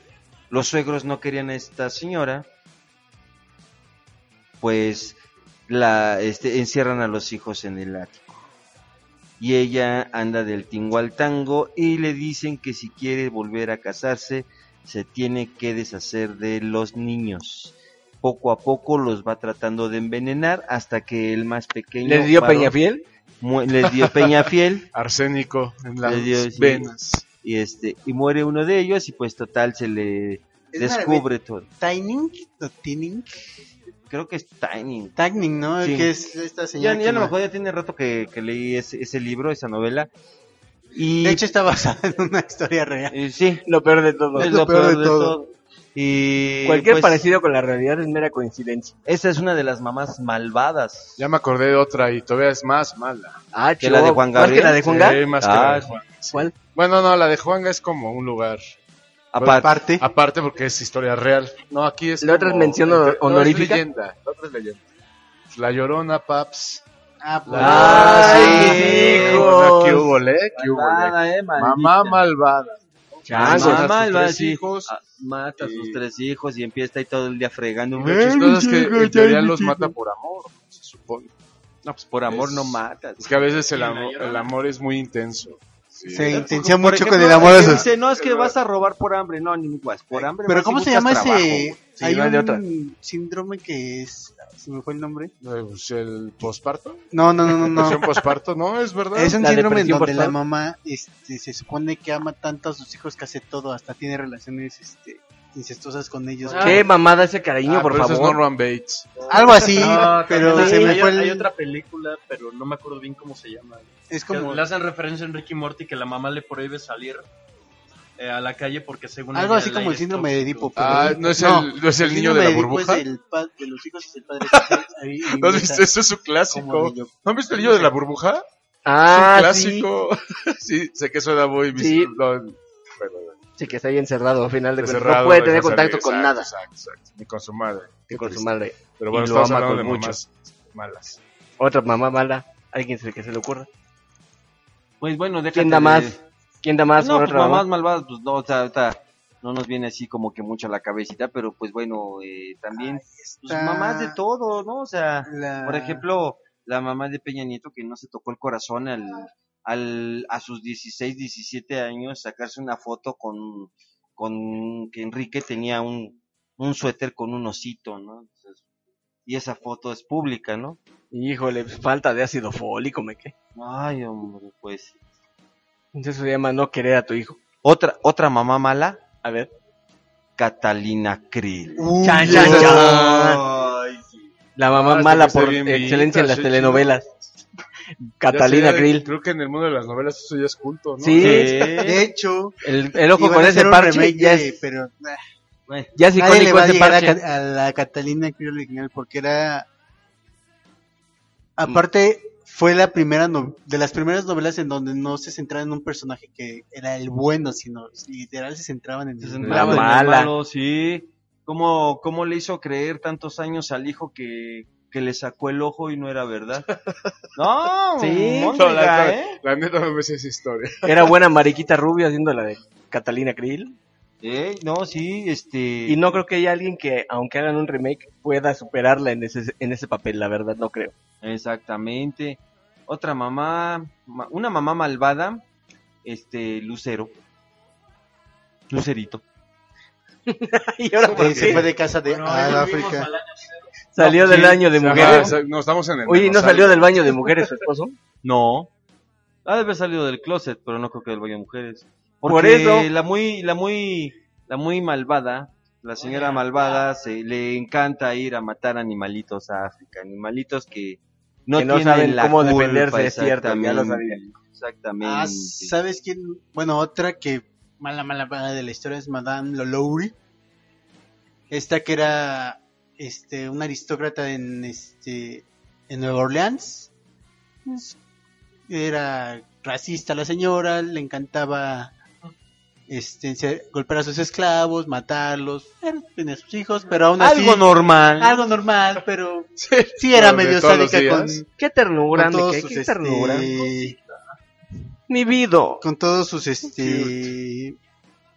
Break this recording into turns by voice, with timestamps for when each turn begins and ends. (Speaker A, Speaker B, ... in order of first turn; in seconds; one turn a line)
Speaker A: 0.5-2.5
Speaker A: 4.6-8.5
Speaker A: 9.4-22.8
Speaker B: 22.0-23.0
Speaker A: 23.4-24.9
Speaker C: 24.9-27.2
Speaker A: 26.0-26.9
Speaker A: 27.4-31.7
Speaker D: 30.7-31.3
Speaker D: 31.8-33.4
Speaker A: 34.1-35.2
Speaker D: 35.2-37.3
Speaker A: 35.8-36.1
Speaker A: 36.8-40.1
Speaker A: 40.9-41.4
Speaker D: 41.2-43.2
Speaker A: 43.1-43.6
Speaker B: 43.6-44.5
Speaker A: 44.3-47.2
Speaker D: 44.4-45.4
Speaker B: 46.6-48.9
Speaker A: 49.1-51.2
Speaker C: 51.2-53.4
Speaker B: 53.5-55.2
Speaker A: 53.8-55.9
Speaker C: 54.6-58.7
Speaker A: 59.3-59.7
Speaker C: 59.4-64.9
Speaker D: 59.5-60.0
Speaker B: 62.2-63.8
Speaker C: 65.5-66.8
Speaker D: 67.2-69.1
Speaker C: 67.5-74.9
Speaker B: 67.6-70.1
Speaker A: 67.6-69.5
Speaker A: 70.5-72.2
Speaker B: 73.3-73.9
Speaker A: 73.4-78.3
Speaker C: 75.6-76.0
Speaker D: 78.0-80.0
Speaker C: 78.0-81.3
Speaker A: 81.8-83.6
Speaker C: 82.2-86.6
Speaker E: 83.7-84.5
Speaker D: 86.1-87.9
Speaker A: 86.3-91.8
Speaker C: 87.4-88.5
Speaker D: 90.2-95.3
Speaker B: 92.0-92.6
Speaker C: 95.4-99.4
Speaker D: 97.1-98.2
Speaker D: 99.1-106.8
Speaker B: 99.4-100.3
Speaker E: 106.5-106.8
Speaker B: 106.6-108.4
Speaker C: 107.7-109.3
Speaker D: 109.3-111.5
Speaker E: 109.7-117.3
Speaker B: 110.5-110.9
Speaker D: 114.1-114.6
Speaker E: 118.2-121.2
Speaker D: 119.3-125.9
Speaker C: 120.8-123.0
Speaker C: 124.5-128.4
Speaker D: 126.5-127.9
Speaker B: 128.9-129.9
Speaker C: 129.1-133.4
Speaker B: 131.7-132.1
Speaker B: 133.6-136.5
Speaker C: 134.8-141.2
Speaker B: 138.1-140.2
Speaker B: 141.6-143.7
Speaker A: 145.0-146.2
Speaker B: 145.5-147.7
Speaker A: 147.0-168.6
Speaker D: 152.8-154.2
Speaker D: 155.2-156.1
Speaker A: 169.3-170.8
Speaker B: 171.1-173.3
Speaker A: 173.6-174.9
Speaker B: 175.9-177.4
Speaker A: 177.6-179.0
Speaker B: 179.2-179.5
Speaker A: 180.4-184.3
Speaker D: 181.8-182.9
Speaker B: 182.0-183.4
Speaker B: 184.6-187.1
Speaker C: 184.7-186.9
Speaker B: 188.2-189.1
Speaker C: 188.3-191.5
Speaker B: 191.0-191.8
Speaker A: 191.2-192.1
Speaker D: 191.8-195.2
Speaker B: 192.6-194.5
Speaker B: 195.9-197.2
Speaker D: 196.2-199.7
Speaker D: 201.6-209.9
Speaker A: 209.2-216.7
Speaker B: 209.4-210.3
Speaker A: 217.4-219.4
Speaker B: 218.0-218.5
Speaker C: 218.5-221.1
Speaker B: 220.8-223.8
Speaker A: 224.2-226.1
Speaker B: 225.9-230.9
Speaker A: 231.2-235.4
Speaker A: 236.1-237.1
Speaker A: 238.7-239.2
Speaker B: 240.3-241.7
Speaker D: 241.1-243.1
Speaker E: 242.0-243.7
Speaker B: 243.9-245.3
Speaker C: 244.0-247.1
Speaker B: 246.1-247.9
Speaker A: 248.2-248.7
Speaker A: 249.4-265.7
Speaker B: 252.3-252.9
Speaker E: 256.0-256.4
Speaker B: 261.6-264.2
Speaker D: 265.0-270.1
Speaker D: 271.5-276.9
Speaker D: 277.7-277.9
Speaker D: 278.7-281.9
Speaker D: 282.9-291.4
Speaker A: 287.2-288.4
Speaker C: 289.6-291.4
Speaker B: 291.6-293.5
Speaker D: 292.1-293.9
Speaker B: 295.1-295.8
Speaker D: 295.8-297.8
Speaker C: 296.8-297.2